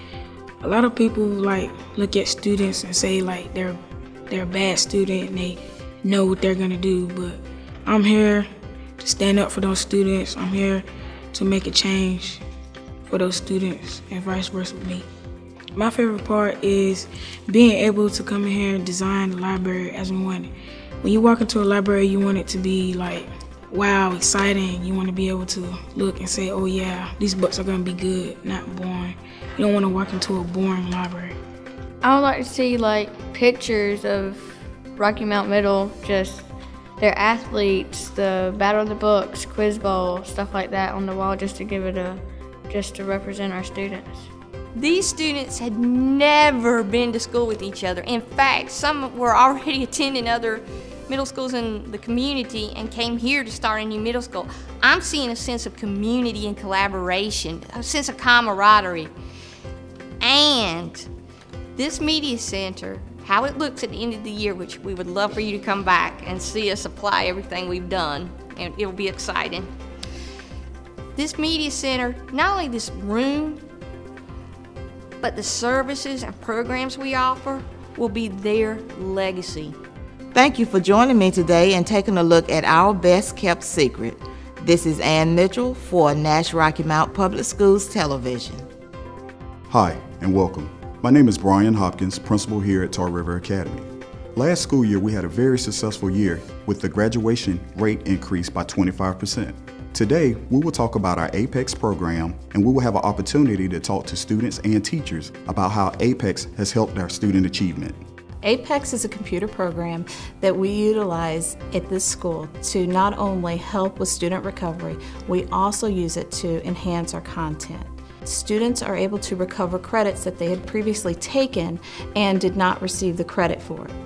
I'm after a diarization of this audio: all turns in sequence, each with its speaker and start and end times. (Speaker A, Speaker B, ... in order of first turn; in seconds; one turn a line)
Speaker A: 0.6-3.8
Speaker A: 4.3-8.5
Speaker A: 9.0-12.4
Speaker A: 13.1-15.0
Speaker A: 15.8-20.5
Speaker A: 21.0-31.3
Speaker B: 32.0-34.4
Speaker B: 35.0-36.5
Speaker B: 37.1-44.2
Speaker C: 44.8-59.1
Speaker C: 60.2-61.1
Speaker C: 61.8-69.7
Speaker C: 71.2-73.6
Speaker C: 75.2-79.8
Speaker D: 80.3-88.7
Speaker E: 89.7-108.0
Speaker F: 108.4-123.9